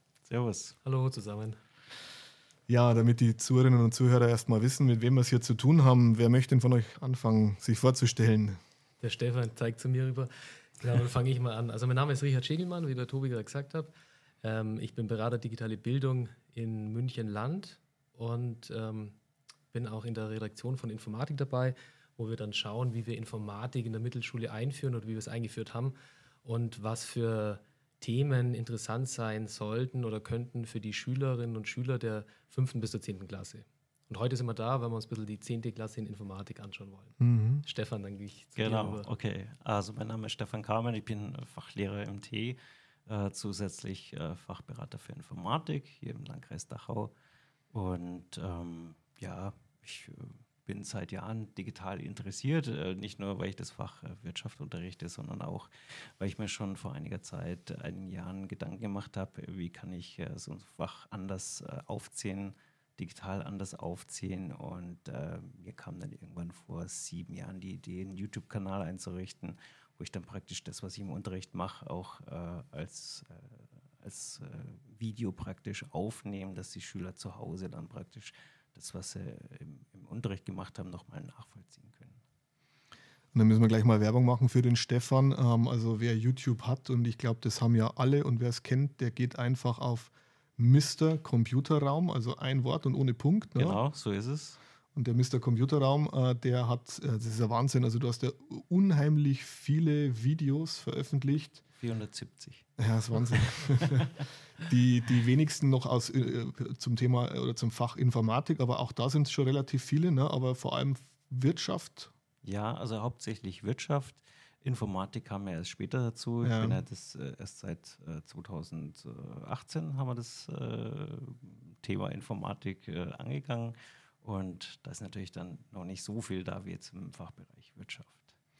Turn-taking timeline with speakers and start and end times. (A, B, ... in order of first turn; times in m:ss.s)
0:00.3-0:00.8 A
0:00.8-0:01.6 B
0:02.7-0:08.6 C
0:09.0-0:13.9 B
0:14.4-0:19.2 B
0:19.7-0:39.1 B
0:37.2-0:37.6 C
0:38.6-0:47.1 A
0:47.7-1:22.2 A
1:23.3-1:33.8 C
1:33.6-1:34.6 A
1:34.9-1:41.6 C
1:41.8-1:42.7 A
1:42.8-1:52.1 C
1:43.3-1:44.3 A
1:52.4-2:08.3 A
1:56.4-1:56.8 C